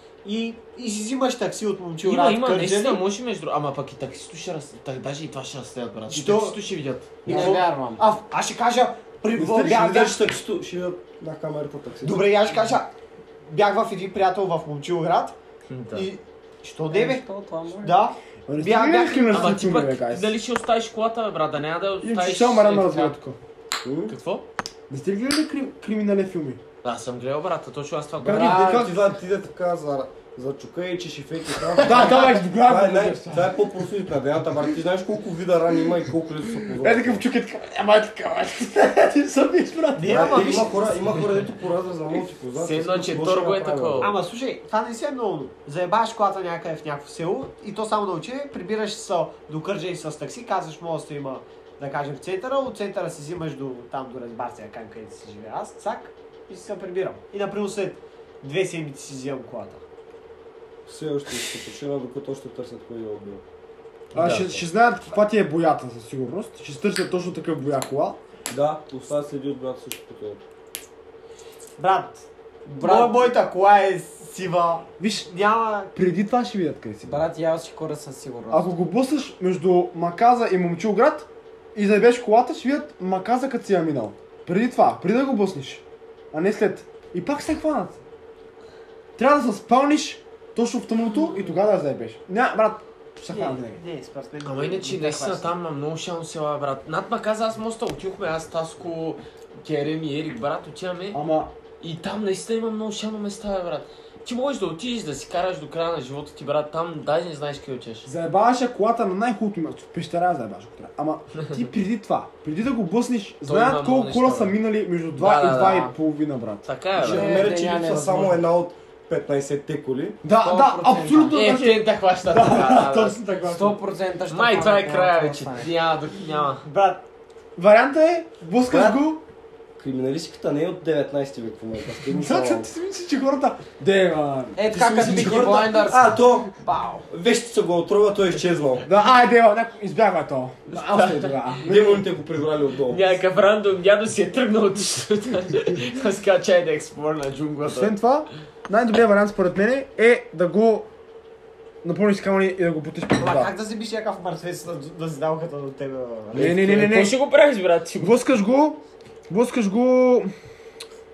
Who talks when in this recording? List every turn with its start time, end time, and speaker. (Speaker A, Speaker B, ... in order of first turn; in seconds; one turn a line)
Speaker A: 0.2-3.0
Speaker B: 2.0-7.3
Speaker A: 6.1-6.6
Speaker C: 7.2-7.7
Speaker D: 7.2-8.1
Speaker A: 7.2-10.3
Speaker E: 9.3-9.8
Speaker C: 9.4-12.2
Speaker A: 12.0-12.9
Speaker A: 13.5-15.3
Speaker B: 15.7-16.1
Speaker A: 15.9-17.2
Speaker D: 16.9-17.9
Speaker A: 17.8-19.6
Speaker E: 18.5-20.4
Speaker B: 19.3-23.1
Speaker E: 22.0-23.4
Speaker C: 23.8-24.2
Speaker B: 24.1-24.5
Speaker E: 24.9-26.6
Speaker B: 26.8-28.9
Speaker C: 28.2-37.2
Speaker E: 28.2-29.0
Speaker E: 31.8-33.7
Speaker E: 36.7-40.6
Speaker A: 40.0-40.9
Speaker C: 40.1-44.1
Speaker B: 42.6-44.1
Speaker A: 44.0-59.8
Speaker C: 60.9-63.4
Speaker B: 64.1-64.5
Speaker C: 64.1-64.7
Speaker E: 64.2-68.2
Speaker C: 68.5-70.4
Speaker A: 71.8-72.2
Speaker D: 72.7-73.3
Speaker A: 72.8-75.9
Speaker E: 75.0-75.3
Speaker E: 75.9-77.2
Speaker D: 77.0-78.7
Speaker E: 78.5-88.0
Speaker E: 89.2-93.8
Speaker A: 93.3-95.5
Speaker B: 94.4-101.2
Speaker E: 101.1-101.5
Speaker B: 101.8-108.1
Speaker E: 108.0-117.4
Speaker B: 113.5-114.6
Speaker B: 115.1-116.0
Speaker B: 116.7-117.4
Speaker C: 117.0-120.2
Speaker D: 117.1-118.5
Speaker E: 120.2-123.8
Speaker D: 120.4-121.4
Speaker B: 121.3-123.2
Speaker D: 123.4-125.7
Speaker B: 124.3-126.7
Speaker A: 126.6-127.0
Speaker E: 127.6-129.2
Speaker C: 128.7-129.0
Speaker C: 129.8-132.7
Speaker E: 132.1-134.6
Speaker D: 134.6-137.1
Speaker C: 134.7-136.6
Speaker C: 137.1-138.9
Speaker E: 138.8-142.1
Speaker B: 140.7-141.5
Speaker C: 141.6-143.1
Speaker B: 142.9-147.9
Speaker E: 147.6-150.9
Speaker E: 151.8-153.5
Speaker A: 153.2-156.7
Speaker B: 156.3-158.2
Speaker E: 156.3-157.2
Speaker E: 158.0-160.3